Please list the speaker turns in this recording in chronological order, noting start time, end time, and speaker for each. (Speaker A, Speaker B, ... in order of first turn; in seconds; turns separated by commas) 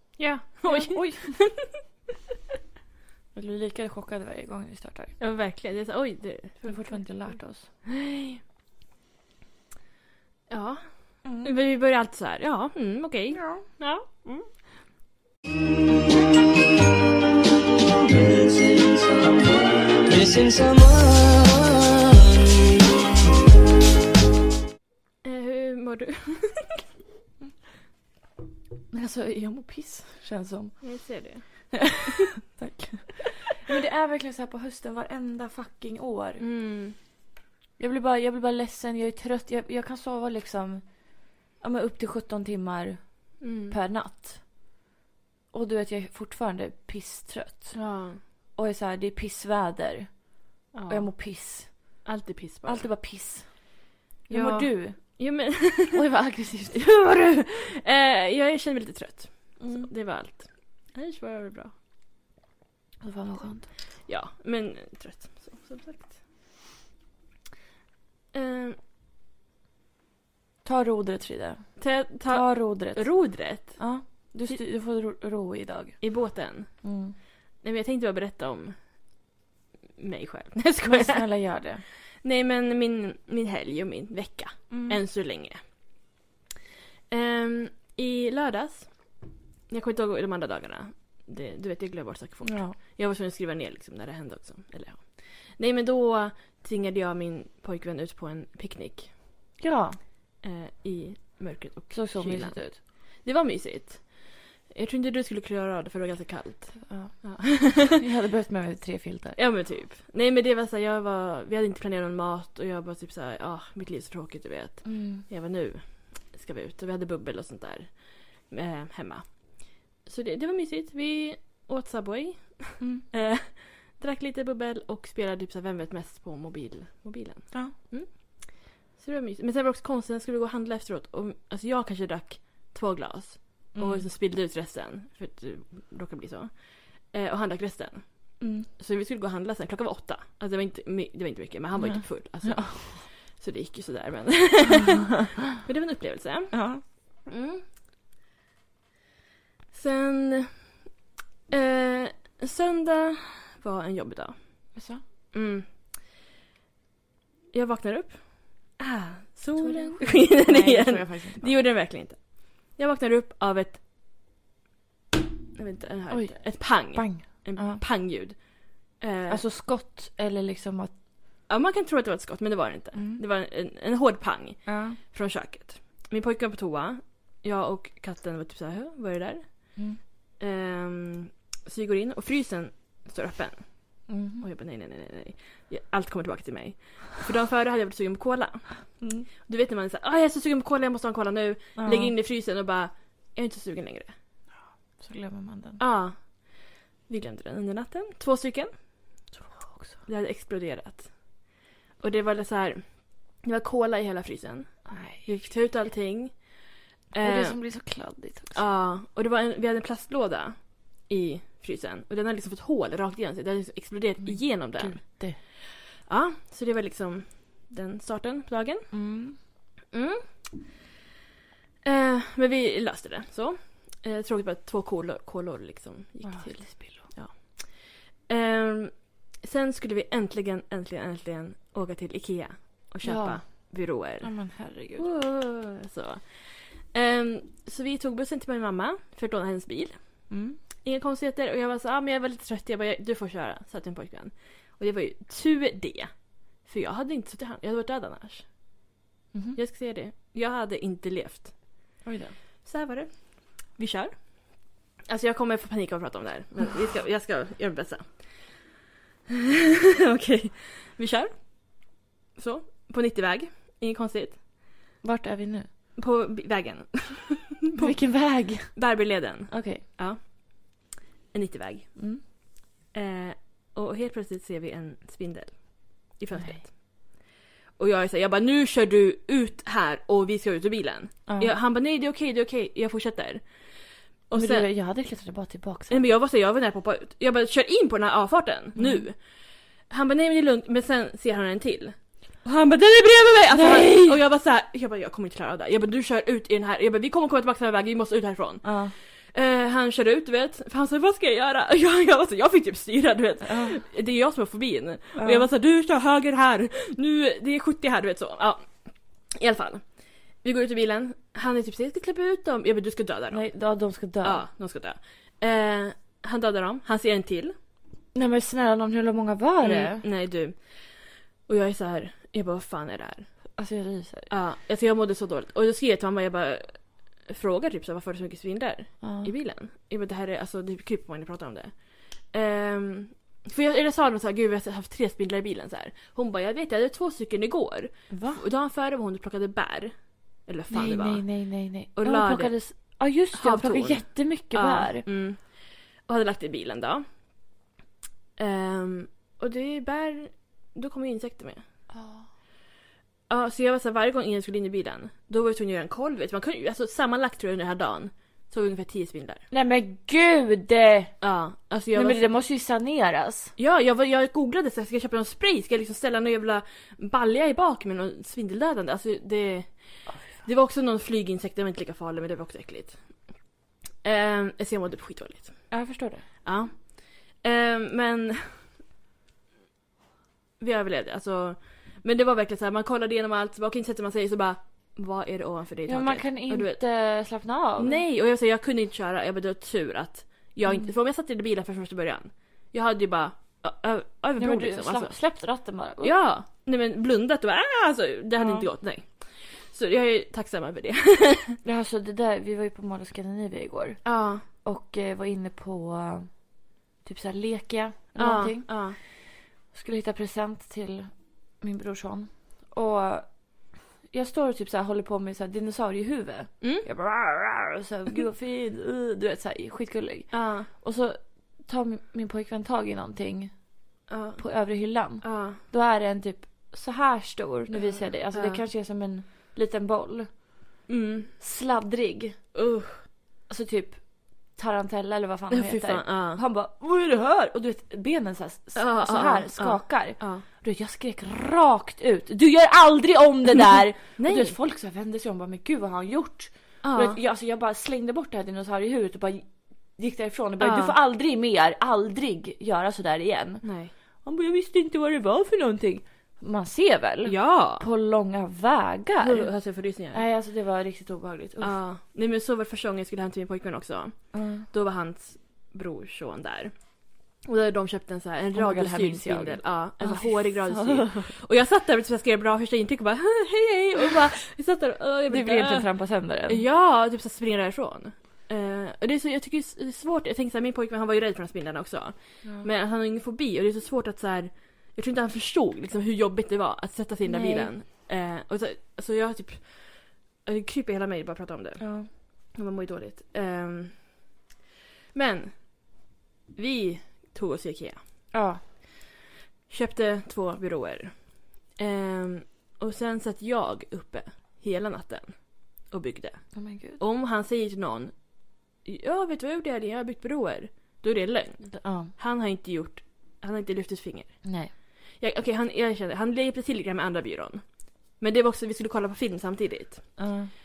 Speaker A: 0.2-1.5, Speaker B: 0.6-1.4, Speaker B: 3.3-5.2, Speaker A: 5.2-8.4, Speaker B: 6.7-7.7, Speaker A: 10.5-14.5, Speaker B: 11.2-11.5, Speaker B: 13.4-13.6, Speaker C: 17.8-22.9, Speaker A: 25.2-26.8, Speaker B: 28.9-36.5, Speaker A: 30.8-32.1, Speaker A: 36.4-37.0, Speaker B: 37.8-44.5, Speaker A: 43.4-43.8, Speaker B: 45.5-47.9, Speaker A: 47.7-48.2, Speaker B: 48.6-52.1, Speaker A: 50.7-51.1, Speaker A: 52.0-52.9, Speaker B: 52.7-53.7, Speaker B: 54.3-56.9, Speaker A: 54.3-56.1, Speaker A: 56.7-61.7, Speaker B: 59.6-59.9, Speaker B: 63.0-63.7, Speaker A: 64.0-66.2, Speaker A: 68.3-68.8, Speaker B: 70.6-76.0, Speaker A: 71.8-73.9, Speaker A: 76.0-76.9, Speaker B: 76.8-77.2, Speaker A: 77.6-78.8, Speaker A: 80.0-81.5, Speaker B: 80.8-81.8, Speaker A: 82.2-85.7, Speaker B: 84.7-85.0, Speaker A: 87.1-89.1, Speaker A: 89.7-99.2, Speaker B: 92.4-92.8, Speaker B: 99.6-100.0, Speaker A: 100.4-108.0, Speaker B: 101.9-102.8, Speaker B: 106.8-109.4, Speaker A: 109.4-146.6, Speaker B: 114.8-115.2, Speaker B: 133.7-134.1, Speaker B: 138.4-138.7, Speaker B: 141.8-143.1, Speaker B: 146.5-146.8, Speaker A: 147.2-147.6, Speaker A: 149.7-150.8, Speaker A: 151.5-154.8, Speaker B: 154.7-155.0, Speaker A: 155.3-155.7, Speaker A: 157.5-163.8, Speaker B: 159.6-161.6, Speaker A: 165.6-169.4, Speaker B: 166.1-167.8, Speaker B: 169.3-170.9, Speaker A: 171.5-179.8, Speaker B: 172.9-173.2, Speaker B: 174.7-175.0, Speaker A: 180.4-194.1, Speaker B: 184.1-184.4, Speaker B: 189.0-189.3, Speaker B: 191.8-192.1, Speaker B: 194.5-195.8, Speaker A: 195.8-199.3, Speaker B: 199.4-200.0, Speaker A: 200.1-201.2, Speaker A: 202.0-207.6, Speaker B: 204.9-205.5, Speaker B: 207.2-208.7, Speaker A: 208.5-218.9, Speaker B: 214.2-215.4, Speaker B: 218.9-219.4, Speaker A: 219.9-220.8, Speaker A: 221.8-234.4, Speaker B: 226.2-227.1, Speaker B: 233.0-235.1, Speaker A: 235.0-248.5, Speaker B: 240.3-240.6, Speaker B: 249.3-249.6, Speaker A: 249.6-251.7, Speaker B: 252.0-252.3, Speaker A: 252.6-258.8, Speaker A: 259.3-264.4, Speaker B: 265.0-265.7, Speaker A: 266.0-272.0, Speaker B: 267.8-269.8, Speaker B: 272.0-272.2, Speaker A: 272.9-276.8, Speaker B: 276.3-276.6, Speaker A: 277.8-283.5, Speaker B: 281.3-281.5, Speaker A: 284.3-284.7, Speaker B: 284.4-286.1, Speaker A: 285.9-289.2, Speaker B: 288.8-289.0, Speaker A: 289.9-313.4, Speaker B: 293.5-294.2, Speaker B: 298.6-298.9, Speaker B: 303.4-303.8, Speaker B: 305.2-305.5, Speaker B: 313.3-314.4, Speaker A: 314.2-317.5, Speaker B: 318.1-320.1, Speaker A: 319.6-320.8, Speaker A: 321.4-323.3, Speaker B: 323.6-324.3, Speaker A: 324.3-341.3, Speaker B: 329.0-329.3, Speaker B: 338.1-338.4, Speaker B: 340.7-345.1, Speaker A: 341.9-347.1, Speaker A: 348.4-351.6, Speaker B: 351.9-352.3, Speaker A: 353.3-359.5, Speaker B: 359.5-361.1, Speaker A: 361.2-362.3, Speaker B: 361.9-363.5, Speaker A: 363.6-373.4, Speaker B: 370.1-370.3, Speaker A: 374.0-375.8, Speaker B: 375.7-376.3, Speaker A: 376.4-378.7, Speaker A: 380.6-386.8, Speaker B: 385.9-388.0, Speaker A: 387.8-395.2, Speaker B: 394.4-396.1, Speaker A: 396.0-401.6, Speaker B: 398.4-398.7, Speaker B: 401.6-406.5, Speaker A: 404.0-404.4, Speaker B: 407.0-423.7, Speaker A: 408.1-409.0, Speaker A: 416.6-416.9, Speaker A: 420.3-420.7, Speaker A: 424.1-424.5, Speaker B: 424.4-430.4, Speaker A: 425.2-425.6, Speaker A: 427.7-428.6, Speaker A: 430.9-431.4, Speaker B: 431.4-432.5, Speaker A: 432.5-433.1, Speaker B: 433.5-453.6, Speaker A: 435.5-436.4, Speaker A: 438.8-440.4, Speaker A: 444.2-444.6, Speaker A: 446.8-447.2, Speaker A: 450.6-451.0, Speaker A: 453.6-453.9, Speaker B: 454.2-459.5, Speaker A: 457.2-457.9, Speaker A: 459.2-460.2, Speaker B: 460.1-461.8, Speaker A: 461.6-466.9, Speaker B: 464.3-464.7, Speaker A: 467.4-494.2, Speaker B: 468.6-471.3, Speaker B: 475.3-476.6, Speaker B: 487.2-487.7, Speaker B: 491.8-492.1, Speaker A: 495.1-495.9, Speaker A: 496.5-498.3, Speaker B: 498.3-498.6, Speaker A: 499.7-520.3, Speaker B: 506.5-507.0, Speaker B: 511.7-512.1, Speaker B: 514.4-514.7, Speaker B: 520.2-520.5